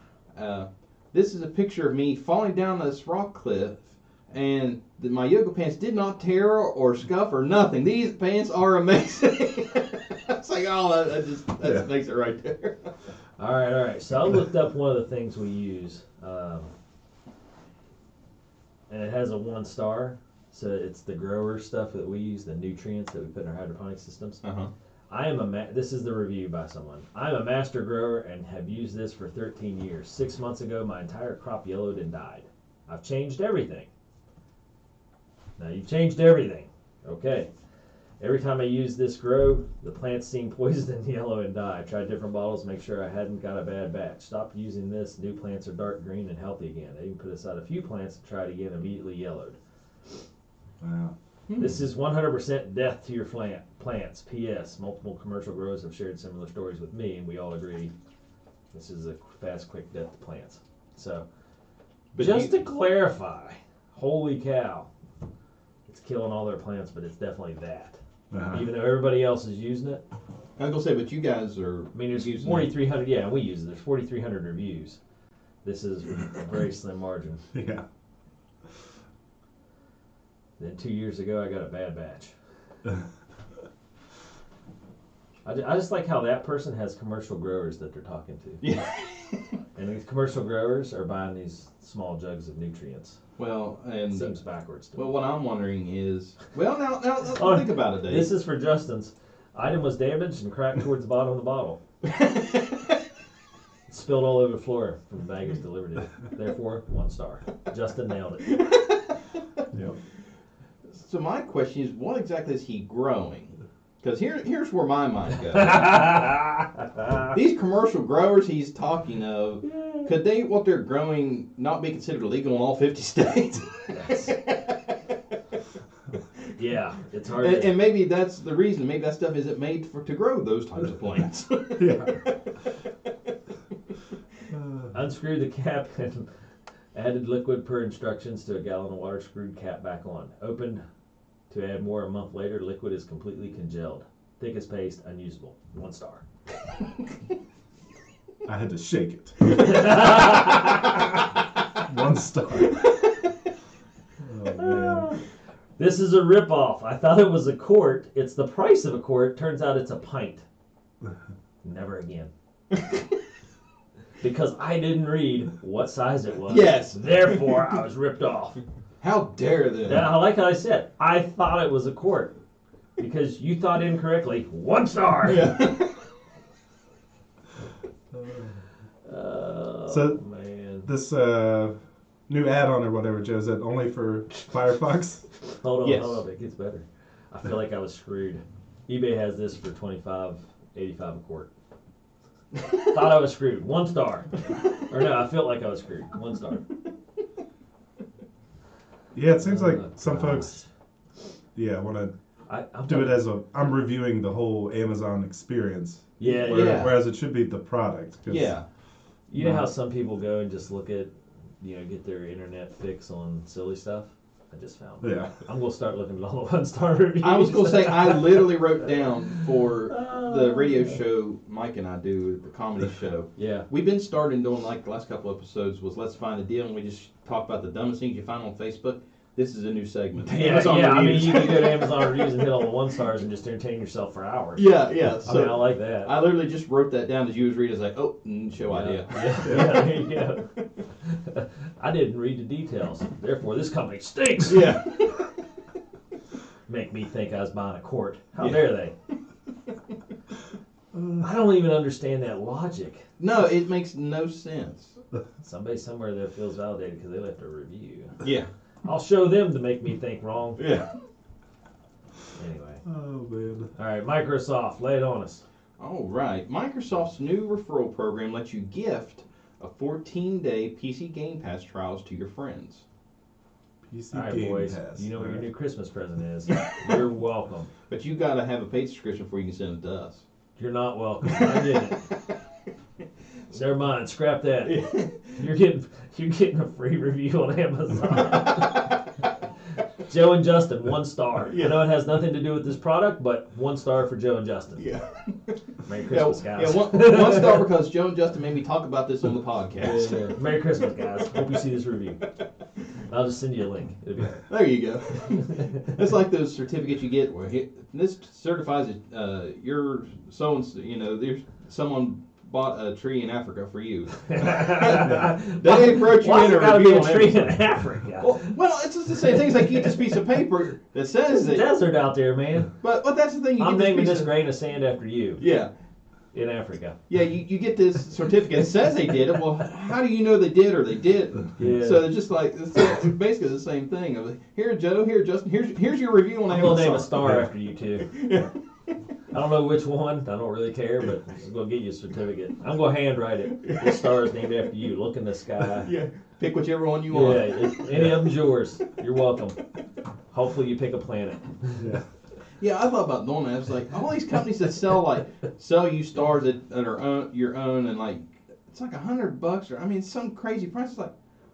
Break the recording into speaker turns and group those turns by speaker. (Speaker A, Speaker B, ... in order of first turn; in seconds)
Speaker A: 0.3-12.9, 24.4-24.7, 51.5-51.8, 62.1-62.6, 70.6-72.7, 88.6-89.5, 93.4-94.3, 94.9-98.3, 102.1-102.9, 108.5-109.2, 110.9-116.3, 117.2-125.1, 127.4-132.4, 162.7-163.0, 166.5-167.7, 169.0-170.1, 175.2-176.0, 185.8-186.2, 206.4-206.9, 208.3-208.6, 217.2-232.5, 234.6-240.7, 244.4-245.3, 248.4-248.6, 253.2-255.0, 258.2-258.5, 260.6-260.9, 265.8-272.8, 277.9-280.2, 281.4-281.7, 284.6-285.4, 291.5-291.8, 294.8-300.4, 304.5-317.6, 318.2-321.7, 322.8-324.3, 325.4-325.7, 327.1-337.4, 338.0-338.5, 343.6-344.1, 345.8-348.3, 352.6-361.1
Speaker B: 13.4-16.7, 18.9-24.4, 25.1-33.9, 35.6-37.5, 38.2-49.6, 51.6-57.9, 58.7-61.2, 62.1-64.9, 65.9-68.0, 68.5-70.0, 71.9-75.0, 75.6-77.4, 80.6-82.3, 85.4-88.6, 89.8-93.2, 94.1-95.1, 97.3-101.8, 103.9-108.5, 115.6-117.2, 119.6-120.1, 123.9-124.3, 126.5-127.7, 134.9-136.3, 136.9-140.8, 141.5-146.2, 149.6-151.0, 154.5-155.2, 155.8-160.4, 161.6-162.3, 164.2-168.6, 169.8-172.3, 173.0-175.5, 179.0-180.9, 185.6-191.5, 192.6-196.7, 199.4-200.7, 202.5-203.2, 206.2-206.9, 209.3-218.6, 219.9-221.0, 223.4-223.7, 230.2-234.7, 235.2-236.1, 238.7-244.7, 246.7-248.9, 251.2-253.0, 255.4-258.2, 258.8-260.6, 262.3-262.8, 263.8-265.4, 274.1-277.7, 280.6-282.1, 283.5-289.0, 290.1-294.8, 295.9-297.7, 299.8-302.2, 303.1-304.5, 305.4-305.9, 314.2-318.6, 319.2-320.2, 321.3-322.7, 323.6-325.4, 326.3-326.9, 331.6-332.1, 336.5-338.1, 339.3-345.9, 347.1-349.6, 350.3-351.9
Speaker C: 50.8-51.1, 68.3-68.7, 77.5-77.8, 109.7-110.0, 131.8-132.2, 134.5-134.9, 148.4-149.6, 151.8-152.9, 154.2-155.1, 179.9-180.2, 180.8-181.8, 182.3-185.2, 199.1-200.6, 201.5-202.1, 202.9-208.5, 209.4-209.7, 215.0-215.3, 239.4-239.8, 250.9-251.2, 262.9-263.7, 273.9-275.4, 351.8-352.1